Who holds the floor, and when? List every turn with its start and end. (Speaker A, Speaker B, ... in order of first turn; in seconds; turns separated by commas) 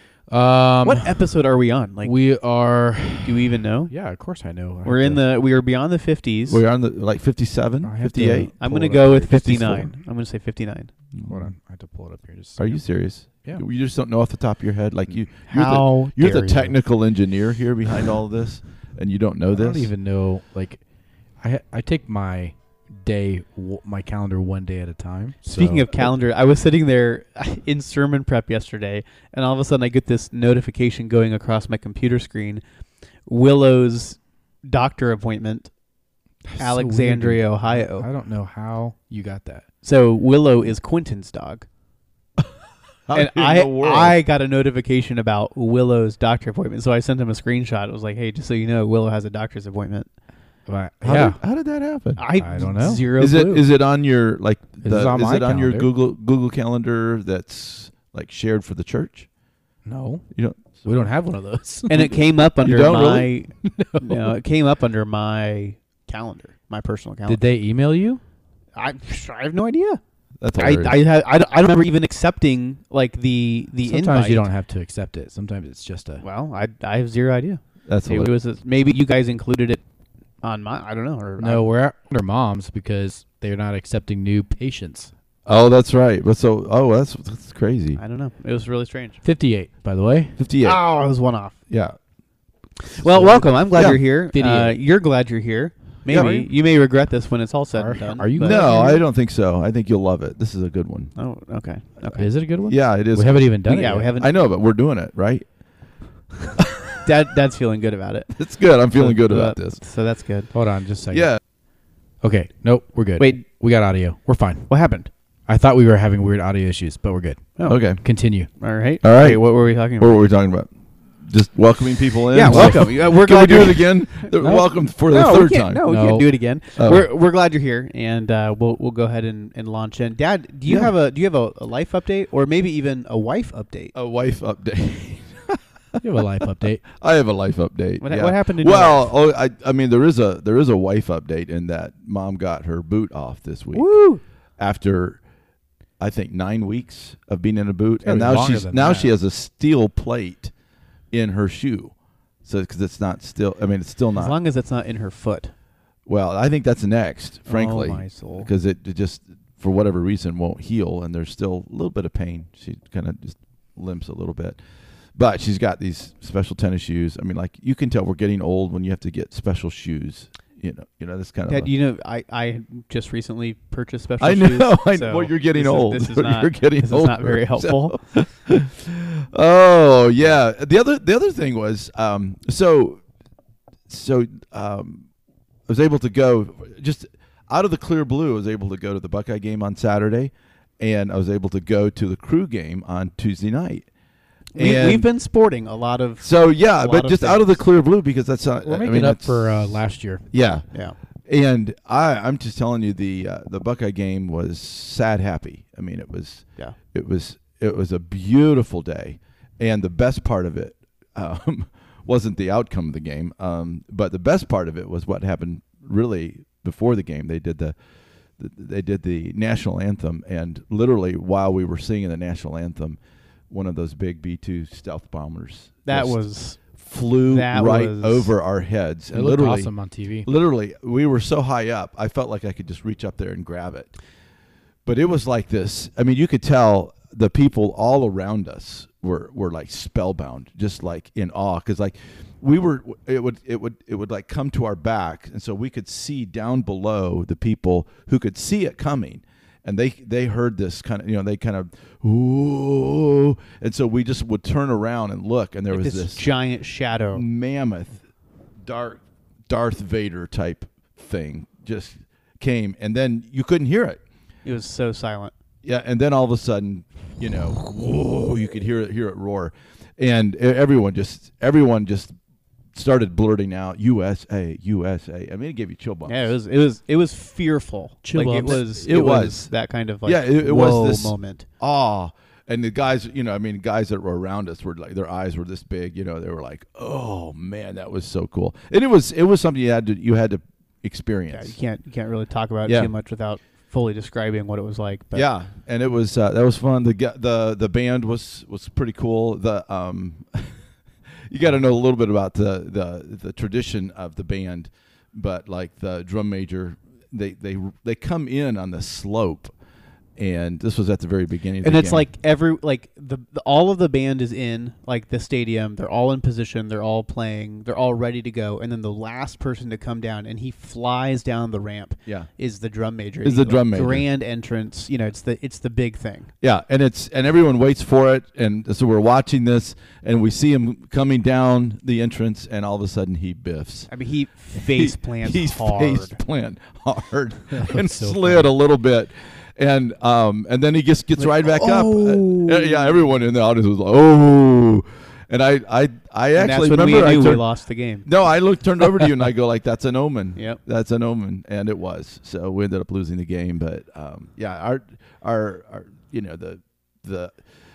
Speaker A: 0.3-1.2, Speaker B: 0.8-2.1, Speaker A: 2.0-5.2, Speaker B: 3.2-3.9, Speaker B: 4.8-6.6, Speaker C: 6.5-8.5, Speaker A: 7.8-9.9, Speaker B: 8.6-10.9, Speaker C: 9.3-9.9, Speaker C: 11.1-11.4, Speaker A: 11.2-12.8, Speaker C: 12.6-19.9, Speaker B: 15.4-16.7, Speaker A: 19.5-20.8, Speaker A: 21.4-26.1, Speaker B: 25.4-32.6, Speaker B: 33.3-35.7, Speaker A: 36.5-39.6, Speaker B: 36.6-38.1, Speaker B: 39.8-41.6, Speaker C: 43.1-44.1, Speaker B: 43.1-50.1, Speaker A: 50.7-51.4, Speaker C: 51.0-52.2, Speaker B: 52.2-53.7, Speaker A: 52.4-53.1, Speaker C: 53.2-59.3, Speaker A: 54.8-55.9, Speaker A: 59.9-60.2, Speaker C: 60.3-61.0, Speaker A: 60.8-62.1, Speaker B: 61.9-67.4, Speaker C: 62.6-63.3, Speaker A: 63.8-64.2, Speaker A: 67.3-68.2, Speaker B: 68.8-70.0, Speaker C: 70.4-71.0, Speaker B: 70.6-74.5, Speaker A: 73.8-76.2, Speaker B: 76.2-79.8, Speaker C: 77.9-78.3, Speaker B: 80.4-81.6, Speaker A: 81.4-85.1, Speaker C: 85.5-88.0, Speaker B: 88.0-89.2, Speaker A: 89.2-90.4, Speaker C: 90.4-90.8, Speaker B: 90.6-91.6, Speaker C: 91.7-92.0, Speaker B: 92.8-98.6, Speaker C: 93.2-94.0, Speaker A: 93.8-94.8, Speaker C: 96.0-96.5, Speaker A: 97.8-99.0, Speaker C: 98.4-101.1, Speaker B: 101.2-102.3, Speaker A: 102.1-104.1, Speaker C: 102.7-103.5, Speaker B: 103.7-104.3, Speaker C: 104.2-105.5, Speaker C: 106.6-107.0, Speaker B: 107.0-108.3, Speaker C: 108.3-109.8, Speaker B: 108.9-110.5, Speaker A: 110.5-111.4, Speaker C: 111.1-111.4, Speaker A: 112.2-114.7, Speaker B: 113.2-113.4, Speaker B: 114.7-115.1, Speaker A: 115.5-118.5, Speaker C: 117.7-118.0, Speaker B: 118.6-120.2, Speaker C: 119.0-119.4, Speaker C: 120.0-120.7, Speaker C: 121.2-125.8, Speaker B: 122.3-124.3, Speaker A: 122.5-122.8, Speaker A: 124.4-124.7, Speaker B: 125.1-133.9, Speaker A: 125.9-126.3, Speaker C: 126.8-127.1, Speaker C: 130.7-130.9, Speaker C: 133.9-136.2, Speaker A: 136.0-136.8, Speaker C: 136.8-143.9, Speaker B: 138.0-139.1, Speaker B: 143.7-144.2, Speaker C: 144.6-145.2, Speaker C: 146.0-150.5, Speaker A: 148.0-149.1, Speaker C: 151.1-154.3, Speaker B: 154.1-155.5, Speaker C: 156.1-164.6, Speaker B: 157.4-158.5, Speaker C: 165.2-171.7, Speaker B: 171.5-178.0, Speaker C: 174.2-183.0, Speaker C: 183.9-185.1, Speaker C: 185.7-193.9, Speaker B: 194.5-197.6, Speaker C: 194.5-195.1, Speaker C: 196.2-199.7, Speaker A: 198.6-200.2, Speaker C: 200.3-200.6, Speaker C: 201.3-217.8, Speaker C: 218.4-223.0, Speaker C: 223.5-226.2, Speaker B: 225.8-226.6, Speaker C: 226.7-229.7, Speaker B: 227.3-228.3, Speaker A: 229.1-230.3, Speaker C: 230.2-233.9, Speaker C: 234.8-256.2, Speaker B: 255.7-257.2, Speaker C: 257.1-258.0, Speaker C: 258.6-264.0, Speaker B: 264.4-265.3, Speaker C: 265.6-272.1, Speaker C: 272.7-276.3, Speaker B: 276.1-281.4, Speaker A: 278.0-278.6, Speaker C: 278.4-279.5, Speaker C: 280.0-291.6, Speaker B: 291.3-295.3, Speaker C: 292.6-292.9, Speaker C: 295.1-300.6, Speaker C: 301.3-309.5, Speaker C: 310.2-312.0, Speaker B: 311.6-326.3, Speaker C: 323.2-324.0, Speaker C: 326.4-333.9, Speaker B: 333.9-336.2, Speaker C: 334.6-347.4, Speaker A: 337.6-338.5, Speaker B: 341.2-343.0, Speaker B: 346.4-348.1, Speaker C: 348.0-357.4